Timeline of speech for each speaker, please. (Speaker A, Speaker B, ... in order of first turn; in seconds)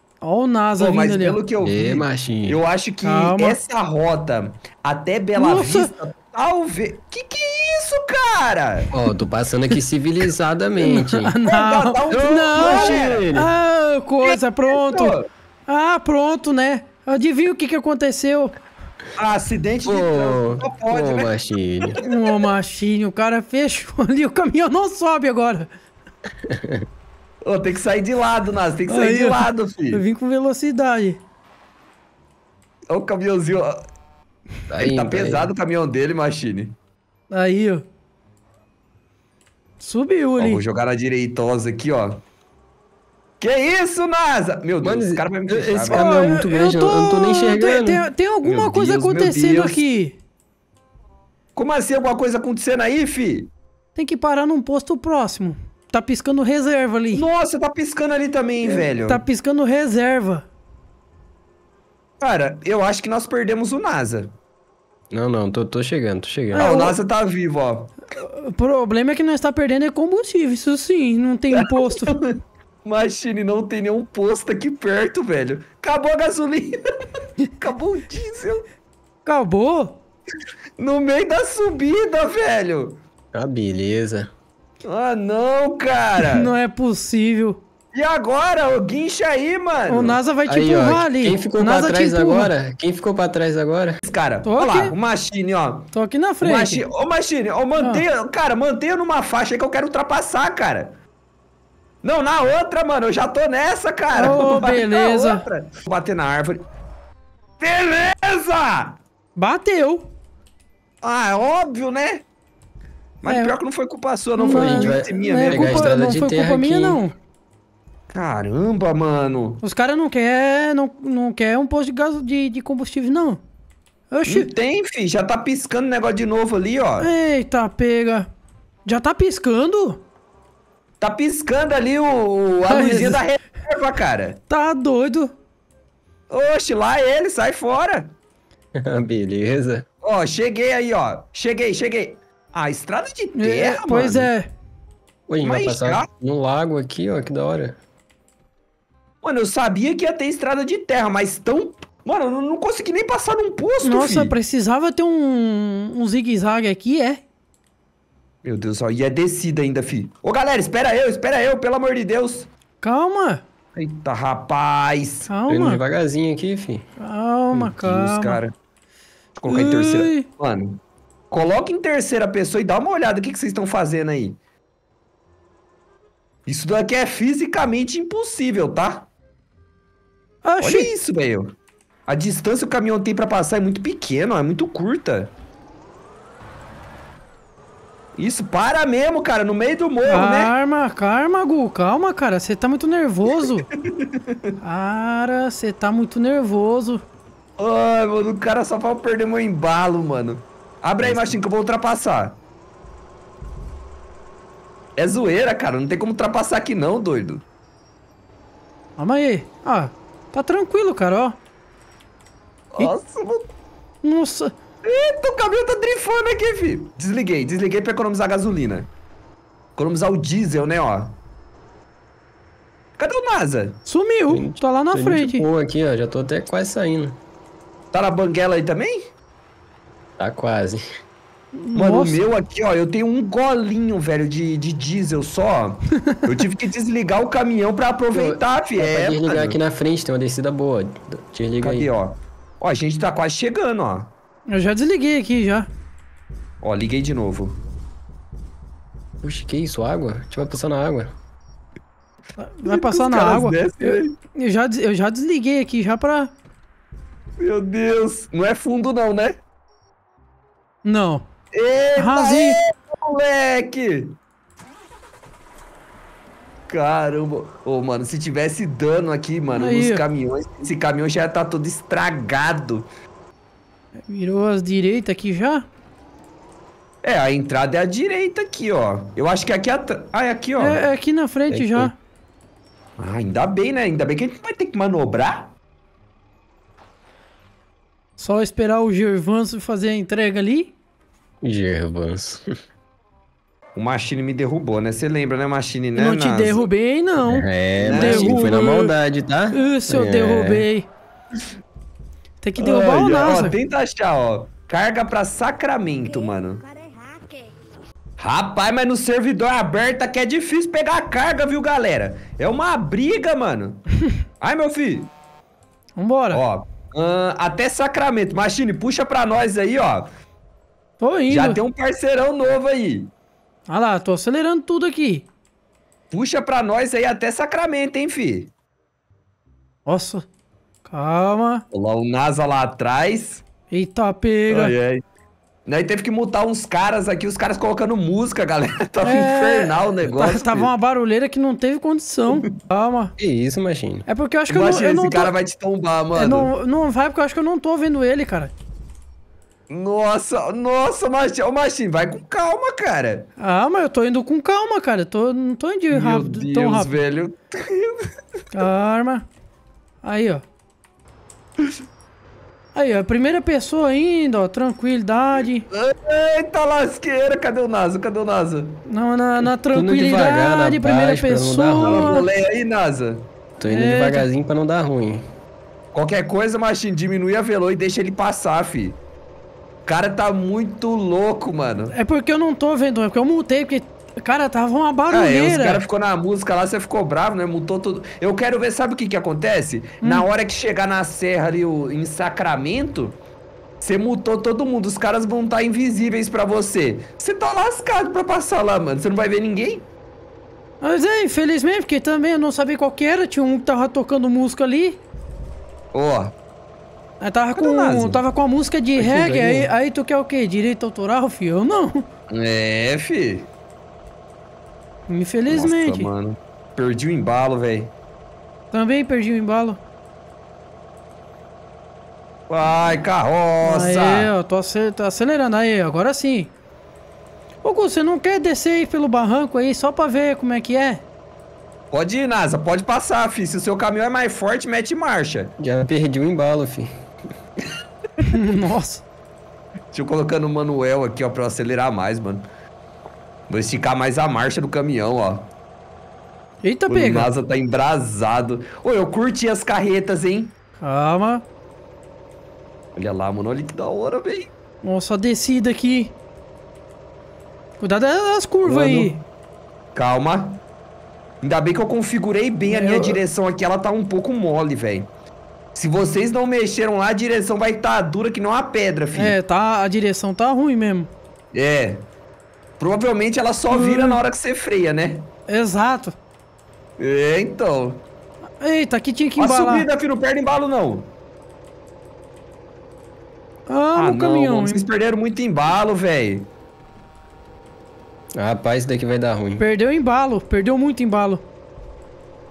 Speaker A: 0.2-1.4, 3.0-3.6, 5.4-5.9, 10.8-15.2, 15.7-18.5, 22.0-25.7, 28.9-31.2, 37.3-37.8, 39.8-40.6, 45.9-50.2, 54.0-57.2, 58.6-60.5, 66.5-67.0, 68.2-72.2, 79.2-80.0, 86.2-87.6, 89.9-92.5, 94.5-94.9, 95.9-96.8, 97.8-98.0, 104.2-105.5, 109.4-110.1, 113.3-113.5, 114.4-117.2, 119.6-123.4, 124.1-124.5, 127.0-128.3, 128.9-130.0, 132.7-133.2, 134.5-135.3, 143.3-144.5, 153.8-157.2, 162.8-163.4, 165.3-165.8, 167.0-168.4, 169.5-170.3, 180.4-180.9, 190.1-193.7, 194.6-197.0, 209.0-211.4, 214.0-214.5, 223.9-225.4, 231.6-232.2, 244.5-245.7, 252.4-256.3, 260.9-261.2, 262.0-262.6, 269.5-270.0, 274.1-275.7, 280.6-282.0, 288.2-290.7, 296.0-298.9, 299.5-300.9, 302.4-303.6, 316.0-316.4, 321.0-321.6, 323.7-325.3, 329.9-330.3, 330.9-331.6, 333.7-334.7, 339.0-343.1, 344.1-345.3, 346.1-348.5, 353.4-357.0, 358.5-359.2, 360.0-360.4, 362.8-365.6, 368.9-372.3, 373.6-374.3, 381.9-385.8, 390.0-390.3, 400.8-405.0, 407.2-412.1, 415.1-416.1, 418.7-419.8, 423.6-426.5, 427.6-431.0, 438.2-439.1, 446.6-447.3, 450.8-451.4, 454.8-456.1, 457.8-459.2, 462.6-463.2, 469.1-471.1, 473.7-474.2, 475.5-476.1, 478.6-479.9, 483.7-484.9, 489.6-491.4
Speaker B: 0.8-8.9, 11.4-13.4, 14.2-15.3, 19.2-21.3, 27.4-30.0, 32.9-33.8, 34.8-36.8, 40.4-42.2, 43.4-46.2, 48.4-49.8, 51.6-53.5, 57.1-59.2, 62.2-64.3, 66.6-68.0, 71.5-76.8, 77.5-78.7, 80.8-83.0, 84.8-86.5, 87.9-90.2, 94.0-95.9, 96.4-101.0, 102.0-106.7, 107.6-109.0, 111.0-112.2, 113.2-115.9, 118.1-119.6, 124.3-127.1, 131.0-134.4, 136.3-138.1, 140.0-144.3, 145.4-146.1, 149.2-154.3, 158.4-162.5, 163.8-165.3, 167.8-168.5, 169.4-170.8, 171.3-174.4, 176.5-179.1, 180.6-181.6, 182.1-185.3, 188.2-190.5, 193.4-194.6, 197.6-202.4, 205.0-207.4, 212.7-213.5, 214.8-218.9, 219.8-221.2, 223.0-223.8, 227.9-229.0, 231.8-239.6, 241.6-244.1, 246.6-247.6, 252.7-254.2, 257.4-259.4, 261.5-264.2, 266.7-272.9, 277.0-280.9, 283.0-285.5, 293.8-296.7, 297.8-298.4, 302.6-306.7, 308.2-313.9, 314.4-315.1, 316.3-320.1, 321.3-323.1, 326.1-328.5, 331.7-333.4, 334.5-335.0, 335.7-340.7, 344.5-346.5, 349.7-353.3, 355.9-358.1, 365.7-368.8, 371.8-373.3, 375.9-379.0, 379.9-381.9, 385.1-393.2, 393.8-399.9, 405.9-406.3, 407.6-408.2, 409.0-409.7, 412.3-413.5, 415.5-417.9, 422.5-424.3, 431.9-435.5, 439.9-442.4, 443.5-445.5, 446.9-450.5, 453.0-454.5, 458.6-459.2, 459.9-460.6, 461.4-465.1, 465.8-469.4, 471.5-472.1, 472.8-475.3, 477.0-478.0, 479.4-481.1, 483.9-486.5
Speaker C: 1.6-2.6, 8.9-11.3, 12.1-13.5, 19.9-22.0, 26.4-26.9, 34.7-35.5, 44.8-48.0, 65.1-66.7, 83.3-84.3, 90.5-94.0, 114.5-117.0, 138.8-139.8, 145.3-147.8, 165.5-166.8, 201.0-201.4, 224.3-227.2, 230.2-230.8, 238.1-241.9, 249.2-251.1, 281.5-281.9, 291.4-292.4, 297.2-300.7, 343.2-344.1, 369.7-372.2, 373.6-375.2, 435.6-436.9, 488.4-489.6